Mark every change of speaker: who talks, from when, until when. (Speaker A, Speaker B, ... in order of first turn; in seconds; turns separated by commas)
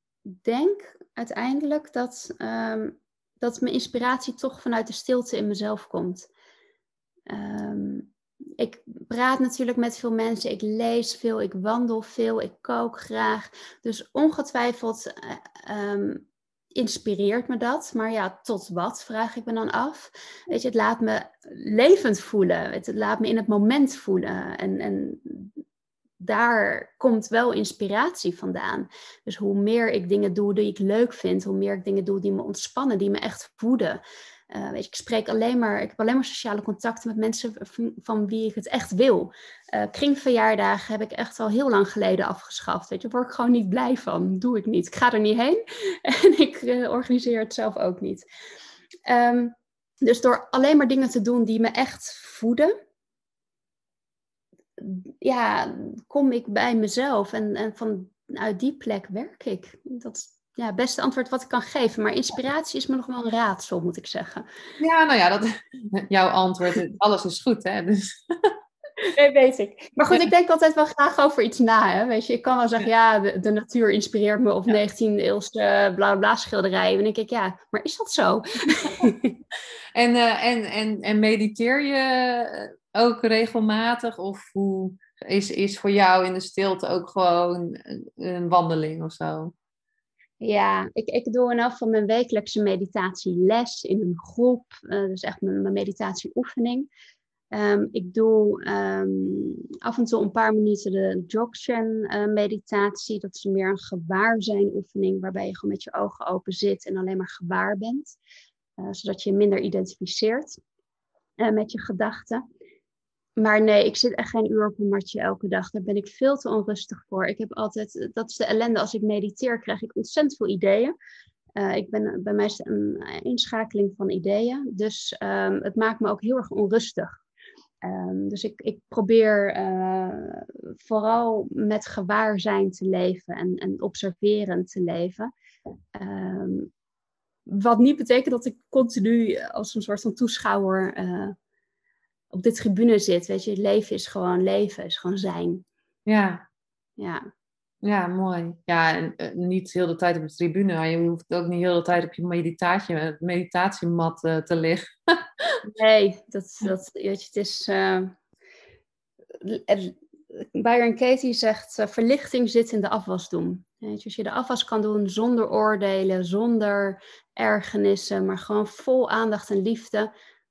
Speaker A: 0.3-6.3, Speaker A: 7.3-25.5, Speaker A: 26.2-48.2, Speaker A: 49.1-52.7, Speaker A: 54.8-64.5, Speaker B: 64.8-68.5, Speaker A: 69.0-79.4, Speaker B: 79.9-89.5, Speaker A: 90.4-96.9, Speaker A: 97.5-108.2, Speaker A: 108.8-110.6, Speaker A: 111.4-112.4, Speaker A: 113.4-120.9, Speaker A: 121.6-127.2, Speaker A: 127.8-135.3, Speaker A: 135.9-136.7, Speaker A: 137.5-141.3, Speaker A: 142.3-145.6, Speaker B: 146.1-146.4, Speaker A: 147.0-147.2, Speaker B: 147.8-155.6, Speaker A: 155.7-158.2, Speaker A: 159.4-170.1